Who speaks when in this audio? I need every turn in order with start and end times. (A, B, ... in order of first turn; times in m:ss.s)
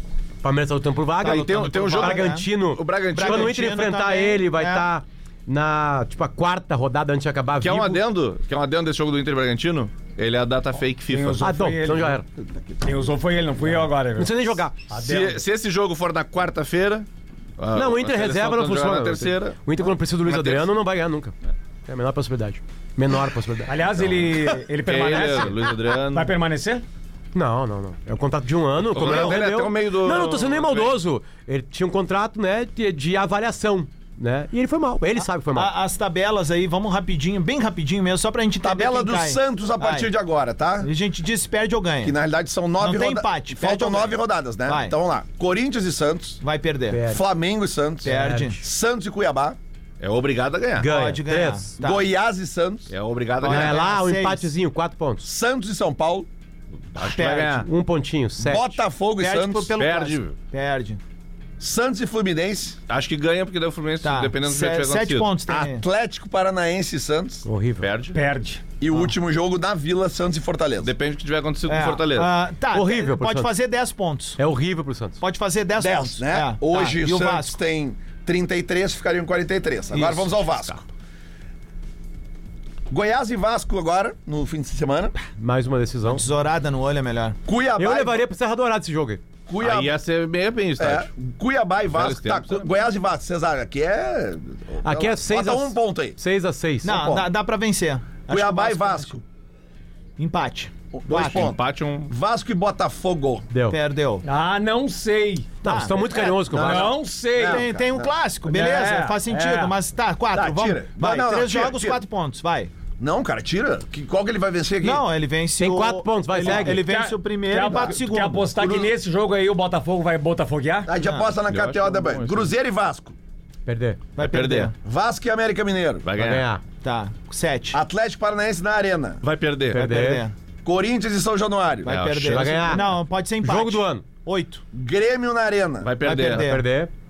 0:00.4-0:08.0 A
0:01.2-0:02.5 B
0:01.2-0:03.6 C
0:03.1-0:04.9 B
0:07.6-0:11.4 C
0:11.1-0:12.2 D
0:11.4-0:12.2 A
0:12.4-0:13.0 E
0:12.8-0:15.4 D
0:14.1-0:14.8 A
0:14.9-0:17.1 C
0:17.6-0:20.7 C
0:17.7-0:21.3 A
0:21.9-0:24.0 A
0:23.7-0:25.6 D
0:24.8-0:26.3 C
0:26.1-0:26.8 D
0:27.3-0:35.7 A
0:28.8-0:31.0 C
0:35.2-0:40.1 B
0:38.6-0:40.9 E
0:40.8-0:42.1 B
0:42.0-0:46.4 E
0:42.8-0:44.9 B
0:46.4-0:47.0 B
0:46.9-0:47.2 A
0:47.1-0:49.6 E
0:48.0-0:48.6 A
0:48.0-0:48.6 B
0:50.0-0:50.9 C
0:50.8-0:51.6 A
0:50.8-0:52.1 B
0:51.8-0:52.9 E
0:52.9-0:53.8 C
0:53.4-0:54.5 B
0:53.4-0:55.3 A
0:55.2-0:56.3 E
0:56.9-0:57.6 C
0:57.0-0:57.6 B
0:57.5-0:58.8 A
0:58.4-0:59.7 E
0:59.2-1:01.0 B
0:59.7-1:00.4 C
1:01.6-1:02.8 E
1:02.9-1:05.3 C
1:04.0-1:05.8 B
1:05.5-1:07.4 E
1:07.4-1:07.9 A
1:07.8-1:08.2 C
1:08.1-1:08.6 D
1:08.8-1:10.9 E
1:10.8-1:12.3 C
1:11.7-1:14.4 B
1:12.7-1:13.5 A
1:14.4-1:15.2 A
1:15.2-1:17.6 B
1:15.8-1:20.8 E
1:19.9-1:20.4 B
1:22.9-1:25.1 E
1:25.4-1:26.2 A
1:26.0-1:27.4 B
1:27.4-1:28.2 E
1:27.8-1:29.2 A
1:29.5-1:29.9 E
1:29.6-1:31.1 C
1:30.8-1:36.2 E
1:31.9-1:32.7 C
1:34.8-1:37.0 A
1:36.8-1:37.3 E
1:36.8-1:39.2 B
1:38.3-1:39.2 E
1:40.2-1:41.5 B
1:40.9-1:43.5 E
1:41.2-1:42.1 C
1:43.5-1:43.8 A
1:43.7-1:44.2 B
1:44.2-1:45.5 D
1:45.6-1:46.9 A
1:45.6-1:52.7 B
1:46.5-1:47.6 D
1:47.4-1:48.1 E
1:48.4-1:49.7 D
1:50.3-1:52.0 E
1:53.0-1:55.0 E
1:54.8-1:58.5 B
1:55.6-1:56.8 A
1:56.4-2:00.9 D
1:58.6-1:58.9 E
2:00.8-2:03.2 E
2:01.0-2:01.4 B
2:01.5-2:02.5 C
2:03.6-2:04.0 A
2:04.2-2:04.7 B
2:04.2-2:04.7 C
2:04.8-2:06.0 E
2:06.0-2:06.5 C
2:06.2-2:06.6 A
2:06.8-2:07.8 B
2:07.7-2:09.2 E
2:09.2-2:09.8 C
2:09.7-2:10.2 A
2:09.7-2:10.3 B
2:10.6-2:12.0 E
2:11.8-2:14.6 B
2:11.9-2:12.8 C
2:12.2-2:14.0 A
2:14.7-2:15.9 E
2:15.8-2:16.5 C
2:16.0-2:16.6 B
2:16.3-2:16.9 A